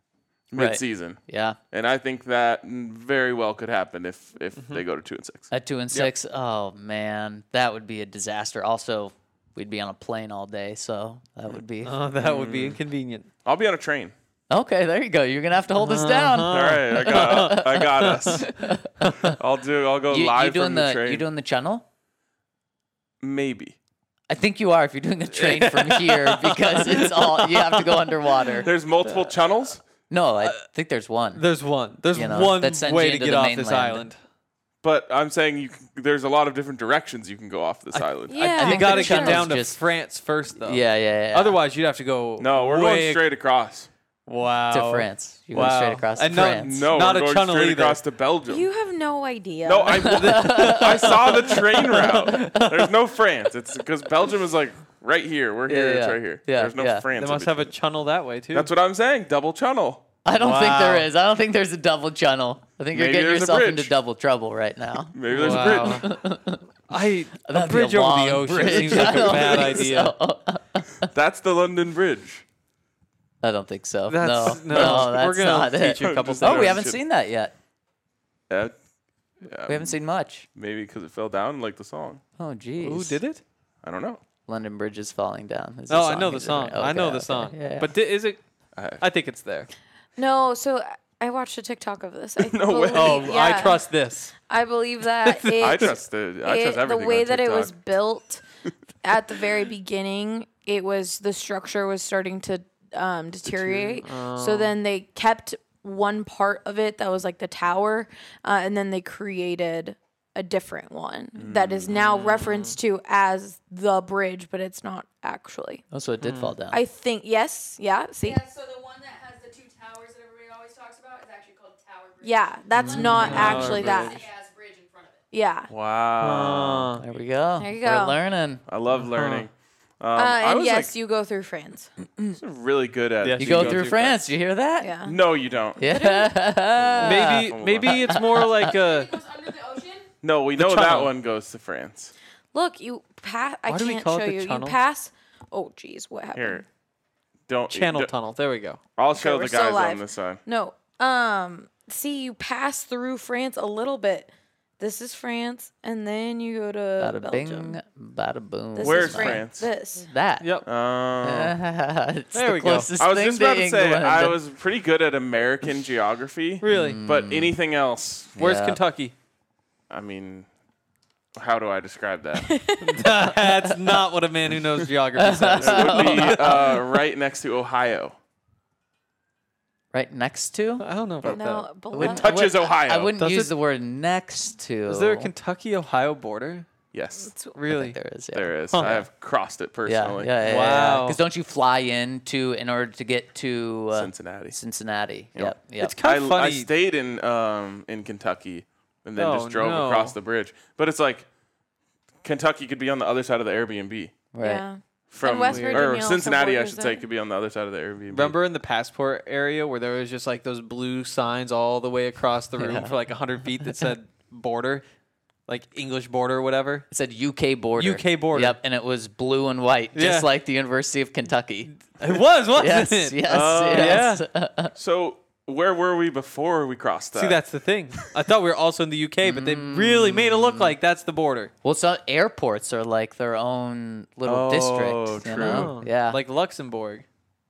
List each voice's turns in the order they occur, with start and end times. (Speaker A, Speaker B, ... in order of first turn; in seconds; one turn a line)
Speaker A: 0.5-1.2
Speaker B: 0.6-1.6
Speaker A: 1.7-5.5
Speaker C: 4.6-4.8
Speaker B: 5.5-11.9
Speaker C: 11.8-13.3
Speaker A: 12.2-12.8
Speaker A: 13.4-14.1
Speaker B: 14.5-19.4
Speaker C: 15.8-18.4
Speaker A: 16.5-18.6
Speaker A: 19.2-21.3
Speaker B: 20.1-21.9
Speaker A: 23.2-23.8
Speaker B: 24.3-28.7
Speaker C: 25.3-28.4
Speaker A: 28.6-29.8
Speaker C: 29.1-29.3
Speaker B: 30.1-31.4
Speaker C: 31.4-34.2
Speaker B: 32.1-34.1
Speaker A: 34.8-38.4
Speaker C: 37.9-43.2
Speaker D: 38.3-39.5
Speaker B: 38.4-39.8
Speaker B: 40.6-41.6
Speaker A: 42.4-43.9
Speaker C: 44.3-48.0
Speaker B: 44.7-46.8
Speaker A: 46.5-48.7
Speaker D: 48.5-50.1
Speaker A: 49.6-57.7
Speaker C: 50.0-52.7
Speaker B: 50.1-51.1
Speaker B: 52.3-52.6
Speaker B: 55.7-57.1
Speaker C: 57.2-58.7
Speaker A: 58.5-60.1
Speaker B: 60.2-66.6
Speaker C: 60.4-61.1
Speaker A: 62.9-63.9
Speaker A: 65.1-66.1
Speaker C: 65.3-66.1
Speaker C: 66.9-70.1
Speaker B: 67.5-71.1
Speaker A: 71.1-72.4
Speaker B: 73.4-77.5
Speaker C: 74.1-76.8
Speaker A: 74.7-75.2
Speaker A: 76.0-77.0
Speaker A: 78.5-78.7
Speaker A: 79.4-80.0
Speaker B: 79.7-80.5
Speaker A: 80.5-82.2
Speaker B: 82.4-83.2
Speaker C: 82.8-83.4
Speaker A: 83.8-84.2
Speaker B: 84.5-87.9
Speaker C: 85.9-88.4
Speaker A: 88.8-89.0
Speaker C: 89.0-89.7
Speaker D: 90.2-93.9
Speaker A: 92.4-93.7
Speaker C: 92.9-94.3
Speaker D: 94.4-98.4
Speaker C: 95.2-95.9
Speaker A: 95.6-97.7
Speaker D: 99.0-115.8
Speaker C: 104.0-104.7
Speaker A: 111.4-112.0
Speaker C: 111.9-112.8
Speaker B: 115.9-116.8
Speaker C: 116.2-116.5
Speaker D: 116.7-118.4
Speaker E: 118.2-122.7
Speaker D: 122.2-124.3
Speaker C: 122.8-124.1
Speaker A: 123.3-123.7
Speaker E: 123.6-125.2
Speaker D: 125.3-125.7
Speaker A: 125.7-127.0
Speaker C: 126.2-127.0
Speaker B: 127.0-128.6
Speaker D: 127.6-128.2
Speaker A: 128.7-130.9
Speaker C: 128.9-129.5
Speaker D: 130.1-131.9
Speaker A: 132.4-134.2
Speaker C: 133.2-134.1
Speaker B: 133.4-134.9
Speaker D: 134.8-135.2
Speaker A: 135.1-135.8
Speaker B: 135.8-138.6
Speaker D: 135.9-136.3
Speaker A: 136.8-138.2
Speaker C: 137.0-139.1
Speaker E: 138.6-140.1
Speaker A: 140.2-142.1
Speaker C: 140.6-141.1
Speaker D: 142.5-146.6
Speaker C: 143.7-144.8
Speaker A: 146.3-146.6
Speaker A: 147.5-148.1
Speaker C: 147.7-148.8
Speaker A: 148.9-150.4
Speaker D: 149.1-157.8
Speaker B: 157.0-159.4
Speaker D: 158.7-160.1
Speaker A: 158.8-159.7
Speaker B: 160.1-160.6
Speaker C: 160.4-160.7
Speaker A: 160.6-161.6
Speaker B: 161.2-164.4
Speaker C: 162.3-162.9
Speaker A: 163.0-168.4
Speaker C: 166.6-167.0
Speaker B: 166.7-167.6
Speaker B: 168.4-168.8
Speaker C: 168.4-169.1
Speaker A: 169.9-170.5
Speaker A: 171.4-172.5
Speaker D: 172.4-172.9
Speaker C: 172.8-176.8
Speaker B: 175.2-176.7
Speaker A: 175.6-178.2
Speaker B: 179.9-180.9
Speaker C: 180.8-181.8
Speaker D: 181.2-182.7
Speaker B: 181.9-185.3
Speaker A: 182.0-183.2
Speaker C: 183.2-183.5
Speaker C: 184.9-186.7
Speaker A: 186.9-187.3
Speaker D: 187.3-187.5
Speaker C: 187.6-188.0
Speaker B: 187.7-189.0
Speaker A: 188.3-190.3
Speaker C: 188.7-189.0
Speaker B: 189.9-195.9
Speaker C: 190.4-191.2
Speaker A: 193.9-194.6
Speaker A: 195.4-201.3
Speaker C: 195.8-196.7
Speaker C: 199.2-200.2
Speaker A: 202.2-204.3
Speaker B: 204.3-204.6
Speaker D: 204.4-207.0
Speaker A: 205.1-208.4
Speaker C: 205.4-206.0
Speaker C: 208.1-214.8
Speaker B: 212.6-212.9
Speaker C: 215.5-216.9
Speaker B: 216.9-221.7
Speaker C: 217.8-218.6
Speaker C: 219.9-220.3
Speaker C: 221.7-224.2
Speaker B: 222.6-224.7
Speaker A: 223.2-224.1
Speaker A: 224.7-227.4
Speaker C: 227.1-231.5
Speaker B: 229.2-230.7
Speaker B: 231.6-236.2
Speaker A: 234.2-235.7
Speaker C: 235.3-237.1